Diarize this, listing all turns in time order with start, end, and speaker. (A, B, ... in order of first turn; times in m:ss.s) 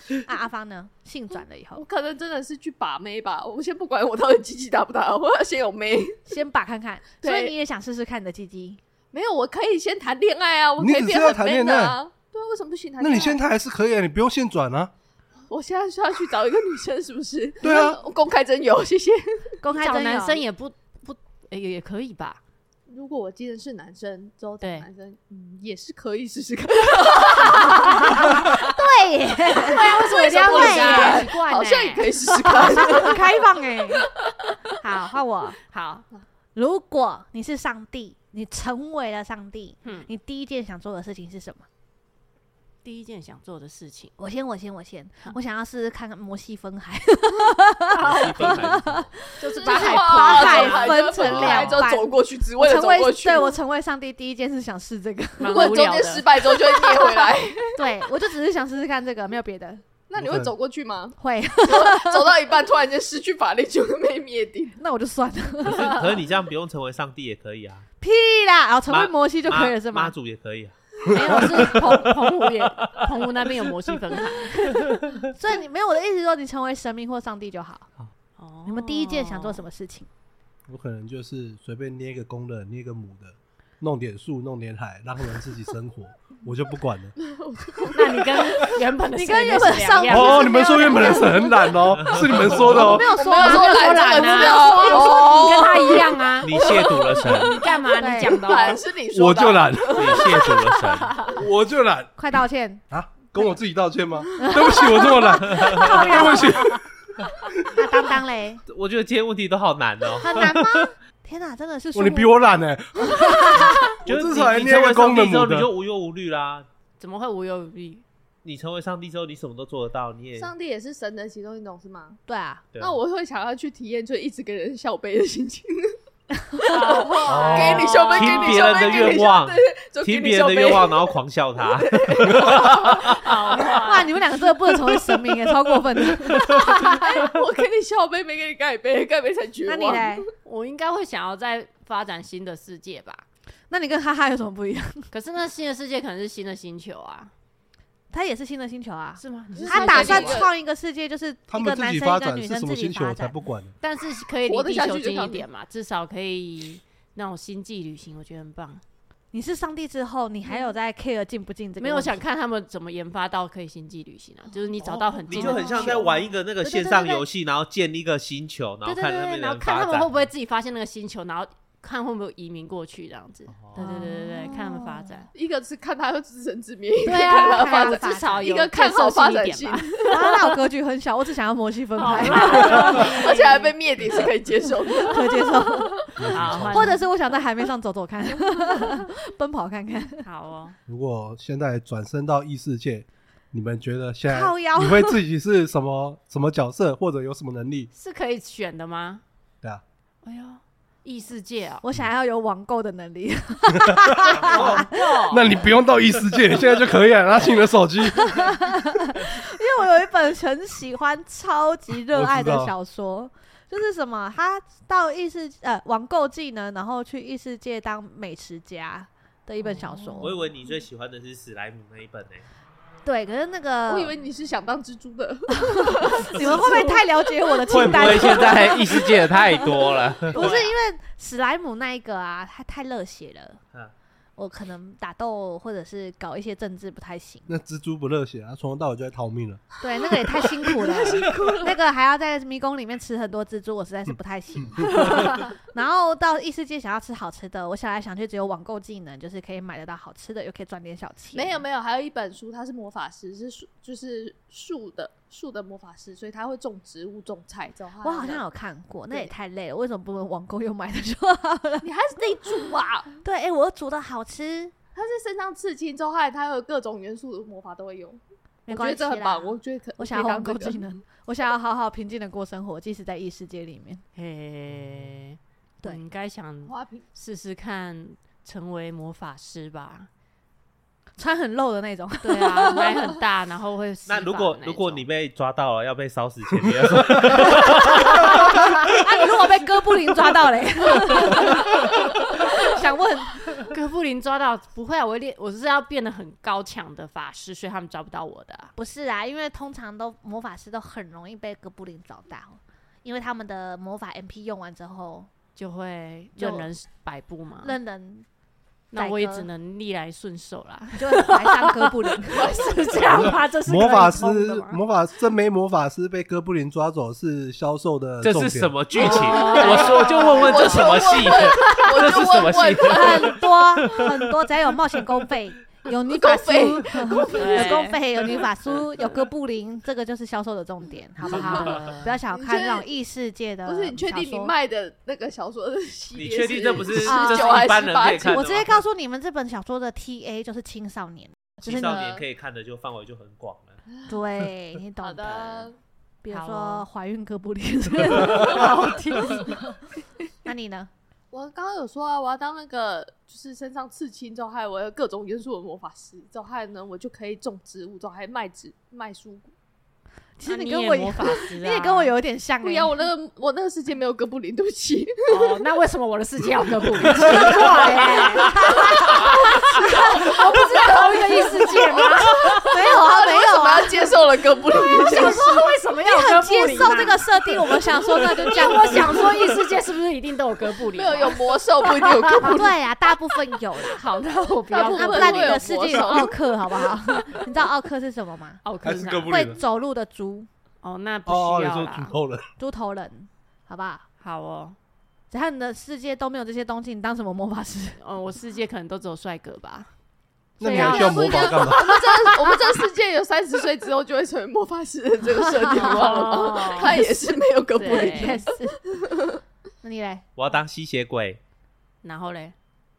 0:00.2-0:01.8 A
0:01.8-0:06.2 B
0:06.3-0:08.8 A
0:07.2-0:07.5 B
0:09.1-0:13.4 B
0:10.8-0:12.0 C
0:13.0-0:14.9 C
0:15.5-0:19.6 B
0:17.6-0:18.0 C
0:19.6-0:20.4 A
0:19.7-0:22.4 D
0:22.9-0:28.5 B
0:24.6-0:24.9 D
0:27.5-0:28.7 D
0:28.2-0:31.3 A
0:29.6-0:32.4 D
0:29.6-0:34.3 B
0:32.3-0:34.1 A
0:34.8-0:35.6 A
0:35.6-0:36.0 D
0:36.5-0:41.7 A
0:39.8-0:40.1 D
0:42.8-0:44.1 D
0:44.2-0:55.8 A
0:48.0-0:48.6 D
0:48.0-0:49.1 E
0:49.4-0:51.7 D
0:49.5-0:53.6 B
0:51.2-0:51.8 E
0:55.4-0:56.3 D
0:55.5-0:57.8 B
0:56.7-0:59.8 A
1:00.1-1:04.8 B
1:00.2-1:00.5 C
1:01.2-1:02.3 A
1:04.8-1:06.1 A
1:05.6-1:07.8 E
1:08.0-1:10.1 A
1:08.9-1:10.8 E
1:11.1-1:12.2 C
1:11.1-1:12.0 A
1:11.1-1:14.9 D
1:12.6-1:13.6 E
1:14.7-1:15.2 E
1:15.3-1:17.9 A
1:18.4-1:19.6 D
1:18.6-1:20.1 A
1:20.7-1:27.2 C
1:27.2-1:28.8 B
1:27.9-1:30.6 D
1:29.1-1:31.8 A
1:30.1-1:33.1 C
1:31.9-1:32.7 E
1:32.4-1:35.5 A
1:32.6-1:38.8 D
1:32.8-1:40.7 B
1:36.4-1:37.6 E
1:37.9-1:38.5 A
1:39.1-1:40.5 C
1:40.0-1:41.2 E
1:40.8-1:41.4 D
1:41.3-1:42.1 C
1:42.2-1:42.8 A
1:42.9-1:46.8 C
1:44.4-1:46.7 A
1:44.6-1:45.1 B
1:45.5-1:46.0 E
1:47.7-1:48.6 A
1:48.7-1:50.9 E
1:50.2-1:52.3 A
1:51.9-1:55.7 C
1:53.0-1:53.9 A
1:54.0-1:56.7 E
1:57.0-1:58.0 D
1:58.4-2:00.5 E
2:00.4-2:02.2 B
2:02.3-2:02.6 A
2:02.8-2:06.0 B
2:06.4-2:06.9 A
2:06.7-2:08.6 D
2:06.7-2:13.9 B
2:07.3-2:07.9 C
2:07.4-2:13.2 E
2:13.0-2:14.2 D
2:13.8-2:17.1 A
2:16.3-2:20.2 B
2:19.7-2:20.3 A
2:20.4-2:23.2 D
2:23.7-2:25.1 A
2:25.1-2:27.3 D
2:28.1-2:33.4 A
2:29.2-2:30.5 D
2:29.5-2:30.5 B
2:31.5-2:33.8 C
2:33.8-2:38.8 D
2:34.4-2:35.4 B
2:39.3-2:42.2 A
2:41.8-2:46.0 D
2:44.8-2:47.2 A
2:45.3-2:50.2 E
2:48.8-2:55.3 D
2:53.7-2:55.2 A
2:55.3-3:00.4 B
2:57.0-3:00.3 D
2:57.0-2:58.5 A
3:00.1-3:03.1 A
3:02.0-3:03.7 D
3:02.4-3:06.4 B
3:05.0-3:10.2 A
3:06.2-3:06.9 C
3:06.3-3:07.1 D
3:10.2-3:10.8 D
3:10.9-3:17.9 C
3:14.2-3:15.2 A
3:17.9-3:19.2 D
3:20.2-3:21.8 D
3:21.8-3:25.0 A
3:23.8-3:28.6 C
3:24.4-3:25.6 D
3:24.5-3:24.8 E
3:28.1-3:40.4 A
3:32.1-3:32.7 C
3:39.6-3:40.3 D
3:40.2-3:42.4 E
3:43.0-3:44.1 A
3:43.9-3:48.5 B
3:45.6-3:49.7 A
3:47.7-3:50.6 E
3:50.2-3:53.6 A
3:54.4-3:57.5 A
3:57.5-3:59.7 C
3:59.8-4:11.6 A
4:00.6-4:01.8 B
4:04.6-4:05.0 C
4:05.0-4:05.4 B
4:11.3-4:18.4 B
4:18.0-4:21.9 A
4:21.8-4:23.2 B
4:23.2-4:24.7 A
4:24.9-4:30.8 B
4:28.7-4:34.0 A
4:34.1-4:40.1 D
4:36.7-4:37.1 B
4:41.2-4:42.9 A
4:42.2-4:45.0 D
4:44.1-4:48.4 E
4:48.0-4:53.6 A
4:53.6-4:58.7 D
4:58.8-5:05.3 A
5:05.6-5:07.8 D
5:06.4-5:06.7 A
5:07.6-5:08.2 A
5:08.9-5:14.8 D
5:08.9-5:09.5 A
5:10.9-5:12.6 A
5:12.3-5:13.3 B
5:13.1-5:18.8 C
5:18.2-5:24.1 E
5:18.9-5:21.0 D
5:19.0-5:23.4 B
5:22.9-5:34.5 A
5:26.1-5:27.9 B
5:27.3-5:28.0 D
5:31.3-5:32.2 D
5:31.4-5:31.7 B
5:32.3-5:32.8 B
5:33.6-5:38.4 B
5:36.1-5:38.8 E
5:37.0-5:42.1 A
5:41.6-5:43.8 E
5:41.6-5:42.2 B
5:44.1-5:45.7 A
5:45.0-5:45.8 B
5:46.2-5:49.8 A
5:46.3-5:46.8 D
5:48.2-5:49.6 D
5:50.4-5:50.9 A
5:51.3-5:59.5 B
6:00.4-6:03.0 A
6:00.4-6:02.1 D
6:02.6-6:05.6 B
6:05.3-6:12.7 D
6:07.1-6:10.4 A
6:07.2-6:15.5 B
6:11.8-6:14.1 A
6:14.8-6:19.4 A
6:15.0-6:17.2 D
6:18.3-6:22.6 D
6:20.9-6:22.7 B
6:22.4-6:24.0 A
6:23.8-6:26.2 D
6:24.7-6:26.9 B
6:24.8-6:28.6 A
6:28.6-6:29.4 D
6:28.8-6:29.6 C
6:29.2-6:30.5 A
6:30.8-6:32.2 D
6:31.2-6:32.5 C
6:32.6-6:34.0 A
6:34.2-6:34.8 D
6:35.3-6:38.0 A
6:38.0-6:39.9 D
6:40.6-6:42.0 C
6:40.6-6:42.0 D
6:40.6-6:49.4 B
6:45.4-6:47.2 A
6:45.8-6:47.1 D
6:47.8-6:48.4 D
6:47.8-6:48.8 A
6:49.8-6:50.2 A
6:50.4-6:51.4 E
6:52.0-6:52.5 D